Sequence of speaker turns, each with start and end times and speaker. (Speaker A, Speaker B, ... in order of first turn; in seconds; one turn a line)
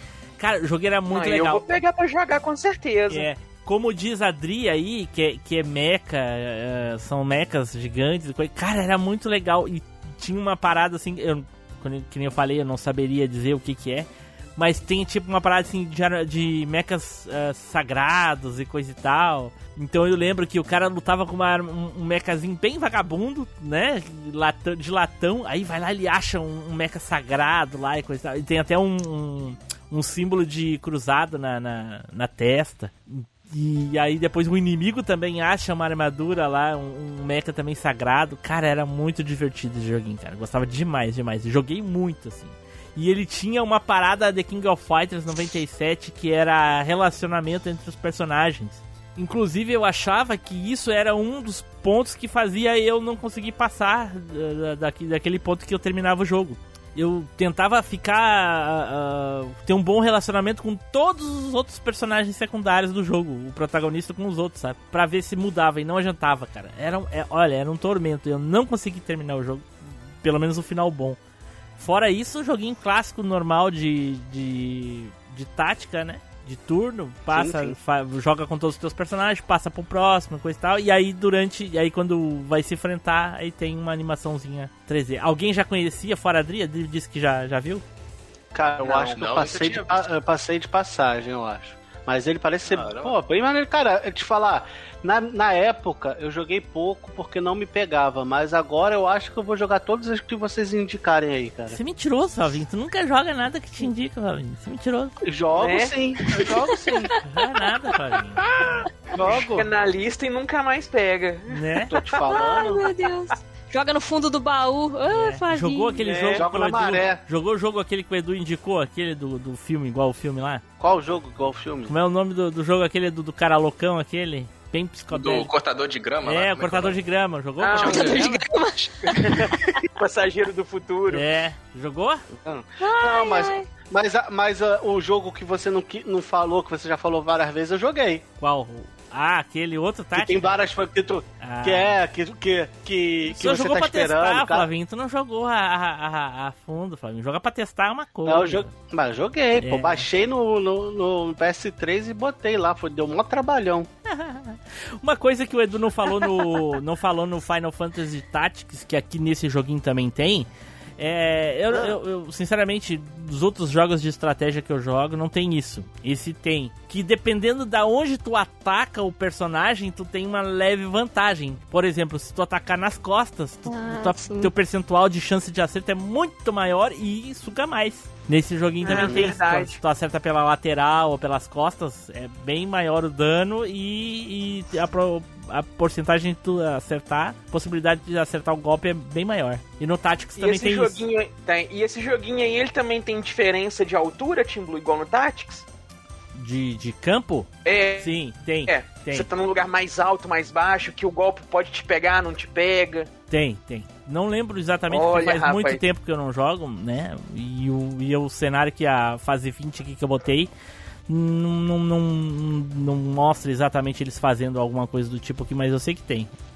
Speaker A: 0.4-1.7
Speaker B: 1.1-3.3
Speaker A: 3.1-69.7
Speaker A: 70.2-71.2
Speaker A: 71.8-87.8
Speaker C: 77.3-77.8
Speaker C: 88.5-101.8
Speaker D: 88.8-90.1
Speaker D: 92.7-93.2
Speaker A: 101.7-105.1
Speaker C: 105.2-107.1
Speaker B: 105.5-105.9
Speaker A: 107.2-108.5
Speaker C: 109.1-109.7
Speaker B: 109.4-111.6
Speaker A: 111.5-111.9
Speaker C: 111.8-112.8
Speaker E: 112.3-116.4
Speaker A: 115.1-120.6
Speaker C: 116.0-117.2
Speaker C: 120.8-121.9
Speaker A: 121.9-125.5
Speaker D: 125.1-127.0
Speaker A: 126.2-128.3
Speaker B: 127.6-128.2
Speaker D: 127.8-129.8
Speaker E: 128.0-129.5
Speaker B: 129.9-131.2
Speaker A: 131.1-132.2
Speaker C: 132.4-138.2
Speaker E: 132.8-133.6
Speaker A: 138.4-140.6
Speaker C: 140.1-144.7
Speaker A: 141.4-141.9
Speaker A: 143.2-148.7
Speaker C: 148.2-153.9
Speaker A: 149.6-150.1
Speaker A: 154.1-191.0
Speaker E: 173.7-174.5
Speaker B: 178.8-179.8
Speaker C: 179.1-179.3
Speaker B: 190.4-195.6
Speaker A: 196.3-197.5
Speaker B: 197.6-198.1
Speaker A: 198.0-199.3
Speaker B: 198.7-203.1
Speaker A: 203.3-210.5
Speaker B: 204.9-205.8
Speaker A: 211.1-216.3